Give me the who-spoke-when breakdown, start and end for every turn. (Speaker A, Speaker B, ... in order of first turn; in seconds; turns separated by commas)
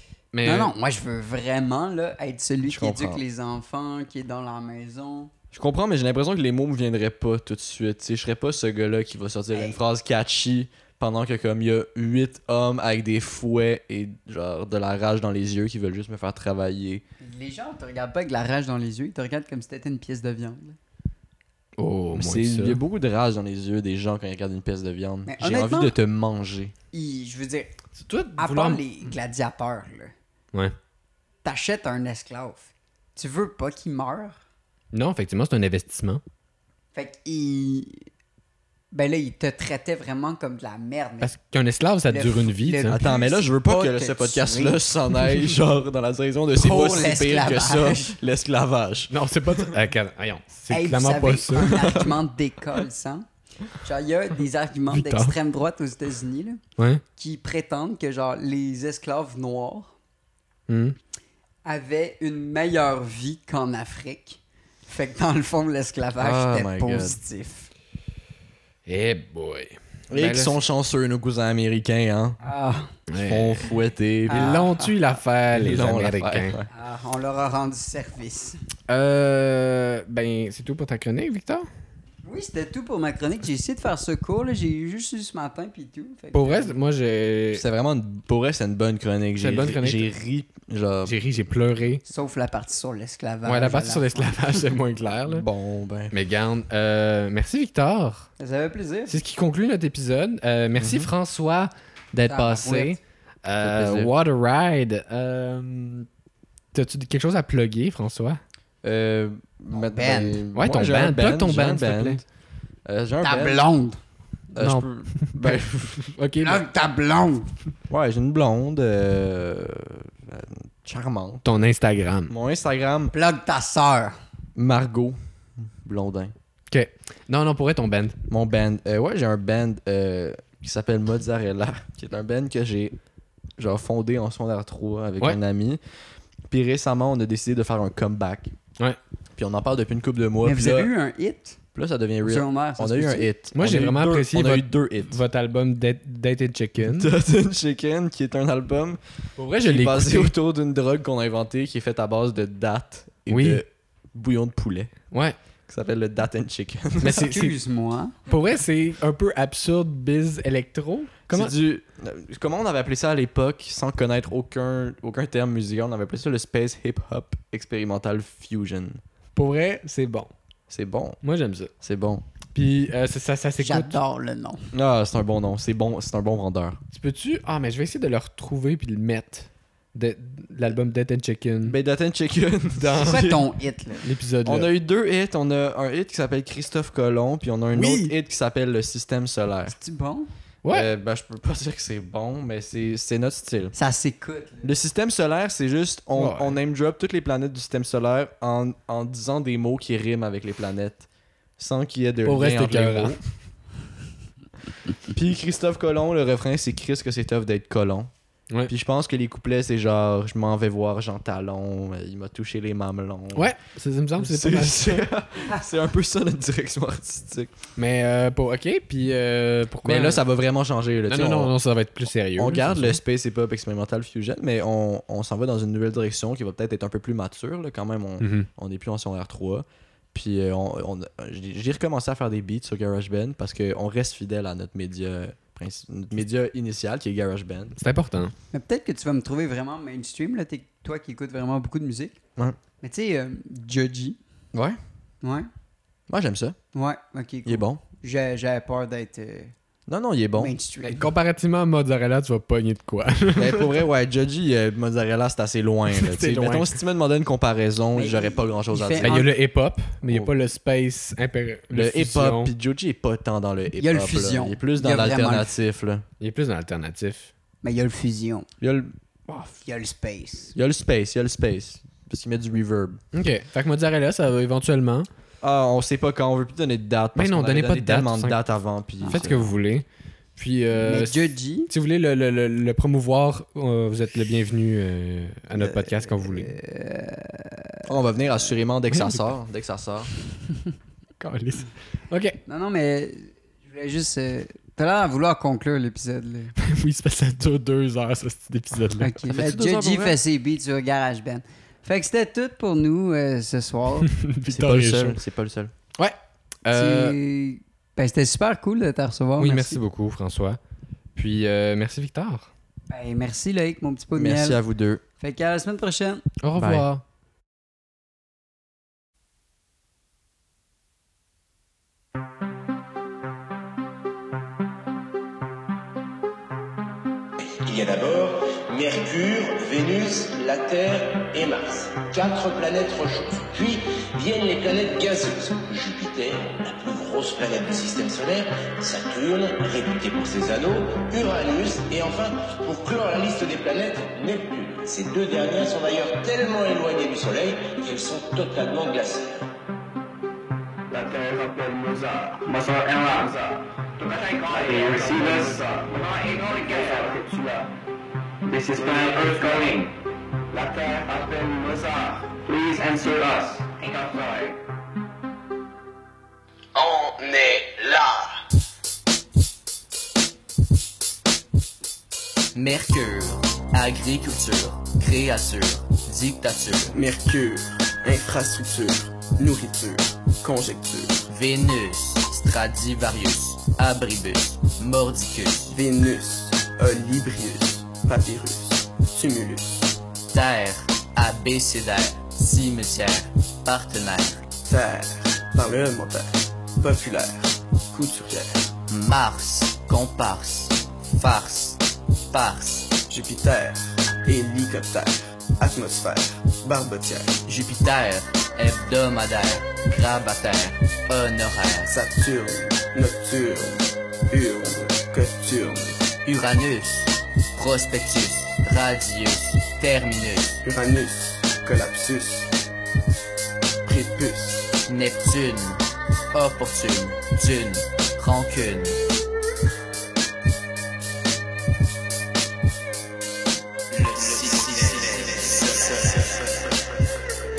Speaker A: 0.3-0.7, Speaker B: 0.4-5.3, Speaker C: 2.6-3.2, Speaker C: 5.5-17.0, Speaker B: 17.2-20.8, Speaker A: 21.8-22.8, Speaker C: 22.2-26.7, Speaker B: 25.3-25.9, Speaker B: 26.9-27.7, Speaker A: 28.0-28.8, Speaker B: 28.4-30.1, Speaker B: 31.4-34.4, Speaker A: 34.9-36.2, Speaker B: 36.9-38.1, Speaker B: 38.9-41.3, Speaker A: 41.2-43.0, Speaker B: 42.1-44.9, Speaker C: 42.9-49.7, Speaker B: 46.5-48.2, Speaker A: 49.1-51.8, Speaker B: 50.7-56.6, Speaker C: 51.6-52.0, Speaker A: 54.9-55.4, Speaker A: 56.8-57.0, Speaker B: 57.2-60.0, Speaker A: 60.7-61.0, Speaker B: 61.6-67.7, Speaker C: 66.2-67.2, Speaker A: 68.9-70.6, Speaker C: 70.1-72.4, Speaker B: 72.4-72.9, Speaker A: 73.1-73.7, Speaker C: 73.2-74.6, Speaker B: 74.3-74.9, Speaker A: 74.3-76.5, Speaker C: 75.5-76.7, Speaker B: 76.7-78.6, Speaker A: 78.9-81.7, Speaker B: 82.2-86.8, Speaker A: 86.3-87.7, Speaker C: 87.5-91.2, Speaker A: 89.4-90.1, Speaker A: 91.0-92.0, Speaker B: 92.1-94.4, Speaker A: 93.5-95.5, Speaker C: 95.2-96.1, Speaker A: 96.1-98.3, Speaker B: 98.4-99.2, Speaker A: 99.1-106.1, Speaker C: 100.8-101.1, Speaker B: 102.3-103.0, Speaker C: 103.6-104.1, Speaker A: 106.7-108.4, Speaker C: 108.8-112.2, Speaker B: 109.8-110.4, Speaker A: 110.6-112.2, Speaker C: 112.8-113.7, Speaker B: 113.2-114.0, Speaker C: 114.5-116.0, Speaker A: 114.6-116.6, Speaker B: 116.4-117.5, Speaker C: 117.9-121.5, Speaker A: 121.5-122.3, Speaker C: 122.3-123.2, Speaker B: 123.1-124.2, Speaker C: 124.6-126.3, Speaker A: 126.7-128.2, Speaker C: 128.3-133.0, Speaker C: 133.6-135.8, Speaker C: 136.5-138.5, Speaker C: 139.4-140.9, Speaker B: 140.4-141.6, Speaker C: 141.8-145.2, Speaker B: 142.2-143.3, Speaker A: 143.6-147.1, Speaker C: 146.8-149.0, Speaker A: 149.4-150.3, Speaker C: 149.6-155.1, Speaker A: 153.3-153.6, Speaker C: 155.7-157.2, Speaker A: 157.0-157.6, Speaker B: 157.1-158.2, Speaker A: 158.3-161.5, Speaker C: 161.3-169.0, Speaker A: 169.3-170.3, Speaker C: 170.7-171.2, Speaker A: 171.2-171.7, Speaker C: 171.8-172.2, Speaker A: 172.5-174.0, Speaker B: 173.6-174.7, Speaker C: 174.7-176.8, Speaker A: 176.9-181.8, Speaker C: 181.7-183.2, Speaker A: 182.8-183.4, Speaker B: 183.0-184.1, Speaker A: 184.0-184.7, Speaker C: 184.4-189.8, Speaker B: 187.8-188.1, Speaker B: 189.7-190.3, Speaker C: 190.7-193.7, Speaker B: 193.8-194.7, Speaker C: 194.6-201.1, Speaker A: 196.2-196.6, Speaker C: 201.6-203.2, Speaker A: 202.2-203.2, Speaker C: 205.1-208.1, Speaker C: 208.7-213.5, Speaker A: 213.3-215.0, Speaker C: 214.2-217.5, Speaker A: 217.8-220.2, Speaker C: 219.8-221.5, Speaker A: 221.1-223.0, Speaker C: 222.4-237.8, Speaker A: 228.2-228.5, Speaker A: 237.8-238.3, Speaker B: 238.5-242.2, Speaker B: 242.8-244.2, Speaker C: 244.5-244.8, Speaker B: 245.2-245.5, Speaker C: 246.1-246.6, Speaker B: 246.7-249.5, Speaker C: 247.4-247.8, Speaker C: 249.9-250.5, Speaker B: 250.4-251.1, Speaker A: 250.9-253.8, Speaker C: 253.3-259.3, Speaker A: 255.9-256.7, Speaker B: 257.9-259.3, Speaker A: 259.0-262.5, Speaker C: 261.7-266.1, Speaker B: 263.8-265.5, Speaker A: 266.2-267.3, Speaker B: 267.6-268.5, Speaker C: 268.6-268.9, Speaker B: 269.6-270.6, Speaker C: 270.6-273.0, Speaker A: 273.1-275.1, Speaker C: 275.4-279.5, Speaker A: 277.2-278.4, Speaker A: 279.0-279.9, Speaker A: 280.4-286.5, Speaker B: 280.7-281.7, Speaker B: 285.6-287.9, Speaker C: 287.9-290.1, Speaker A: 288.9-289.2, Speaker A: 291.2-292.4, Speaker B: 292.5-296.5, Speaker A: 296.6-299.1, Speaker B: 299.0-304.1, Speaker C: 299.2-300.2, Speaker A: 304.1-305.2, Speaker C: 304.5-305.7, Speaker A: 306.0-307.2, Speaker B: 306.7-309.8, Speaker A: 309.4-310.6, Speaker A: 311.2-312.5, Speaker B: 312.9-314.6, Speaker C: 314.1-315.0, Speaker B: 315.2-316.2, Speaker A: 316.4-317.0, Speaker C: 316.6-316.9, Speaker D: 327.4-349.5, Speaker E: 350.9-357.8, Speaker E: 358.4-360.0, Speaker E: 360.5-364.6, Speaker F: 366.8-368.4, Speaker G: 372.5-377.0, Speaker F: 376.9-381.3, Speaker G: 381.3-385.8, Speaker F: 385.7-389.9, Speaker G: 390.3-394.5, Speaker F: 394.7-398.7, Speaker G: 398.9-402.9, Speaker F: 403.1-407.4, Speaker G: 407.5-411.9, Speaker F: 411.9-416.0, Speaker G: 416.2-420.6, Speaker F: 420.6-422.5, Speaker F: 423.9-424.7, Speaker G: 424.9-429.0, Speaker G: 433.9-436.3, Speaker F: 434.3-436.9